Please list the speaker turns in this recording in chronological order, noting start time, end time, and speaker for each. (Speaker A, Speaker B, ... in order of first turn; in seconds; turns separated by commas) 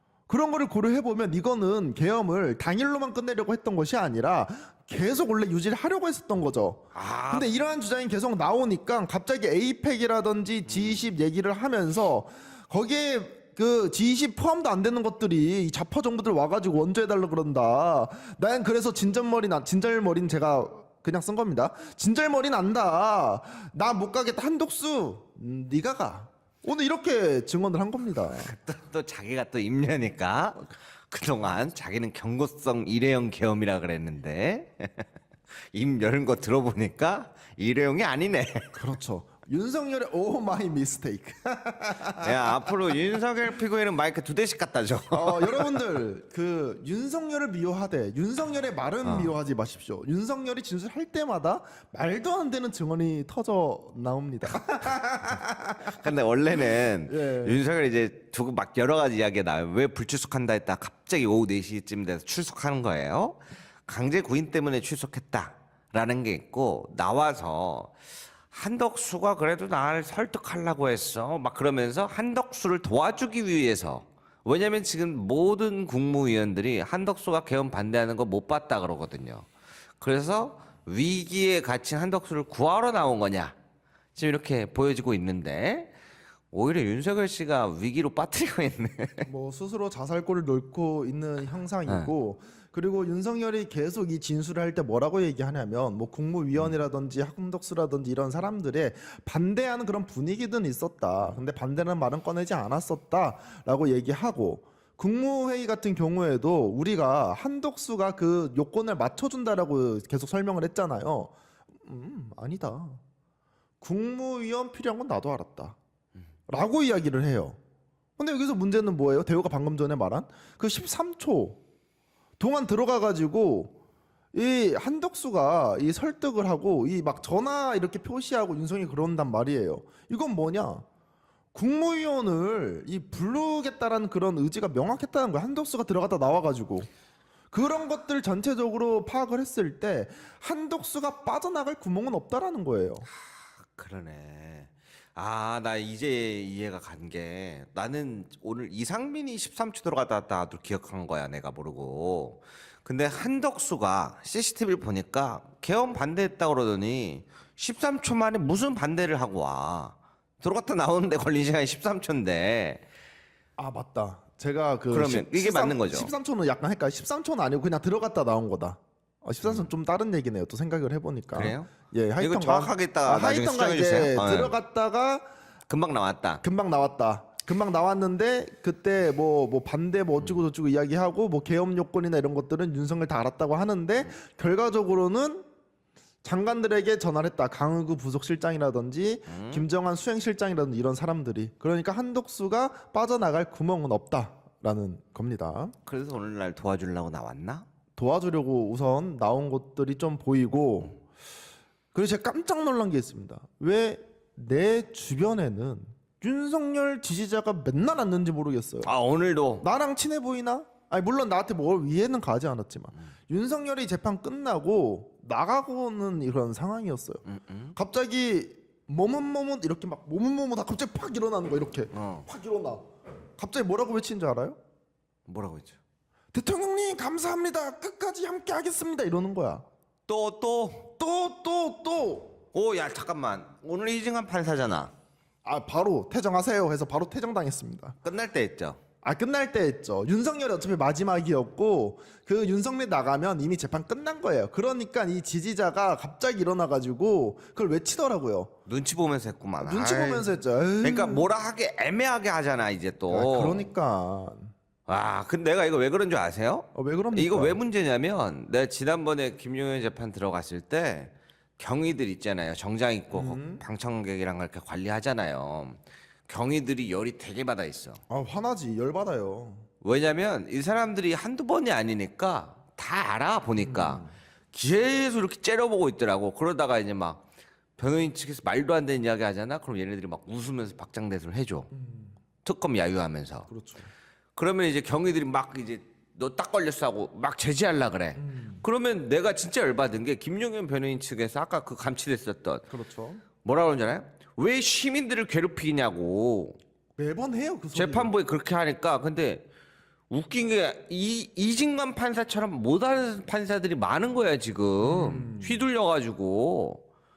Speaker A: 0.3-28.5, Speaker B: 6.9-7.5, Speaker B: 10.6-11.1, Speaker B: 28.3-35.0, Speaker B: 35.7-38.8, Speaker A: 38.7-42.8, Speaker B: 42.2-45.9, Speaker A: 45.1-55.9, Speaker B: 49.0-49.3, Speaker B: 54.8-67.9, Speaker A: 57.1-57.6, Speaker B: 68.5-79.5, Speaker B: 80.0-83.5, Speaker B: 84.2-85.9, Speaker B: 86.5-89.3, Speaker A: 89.2-113.0, Speaker A: 113.8-115.8, Speaker A: 116.5-117.6, Speaker A: 118.2-121.6, Speaker A: 122.4-123.7, Speaker A: 124.3-130.8, Speaker A: 131.5-136.9, Speaker A: 137.5-143.1, Speaker B: 143.1-162.8, Speaker A: 163.6-175.2, Speaker B: 164.9-166.1, Speaker B: 169.4-169.7, Speaker B: 171.3-174.5, Speaker B: 175.7-176.4, Speaker A: 176.4-185.5, Speaker A: 186.2-195.7, Speaker B: 189.3-189.7, Speaker B: 195.8-197.7, Speaker A: 197.9-201.0, Speaker A: 201.9-208.9, Speaker B: 208.8-209.7, Speaker A: 209.6-217.2, Speaker B: 217.2-217.7, Speaker A: 217.7-222.8, Speaker B: 221.9-222.3, Speaker A: 223.4-224.6, Speaker B: 225.3-225.8, Speaker A: 226.3-229.6, Speaker B: 230.1-230.9, Speaker A: 231.0-232.4, Speaker B: 232.5-234.9, Speaker A: 235.4-237.9, Speaker B: 238.0-238.8, Speaker A: 239.0-248.5, Speaker B: 248.7-250.3, Speaker A: 249.6-251.3, Speaker B: 250.8-253.7, Speaker A: 253.1-254.5, Speaker B: 254.9-268.0, Speaker A: 256.7-257.6, Speaker A: 263.1-263.6, Speaker A: 268.1-269.7, Speaker B: 269.8-277.2, Speaker A: 273.6-274.1, Speaker B: 277.8-281.7, Speaker A: 281.7-282.1, Speaker B: 282.4-283.5, Speaker A: 283.5-283.9, Speaker B: 284.4-292.7, Speaker A: 288.1-288.6, Speaker A: 292.7-293.2, Speaker B: 293.4-296.6, Speaker A: 297.0-298.1, Speaker B: 297.7-299.4, Speaker B: 300.1-306.8, Speaker A: 304.8-305.7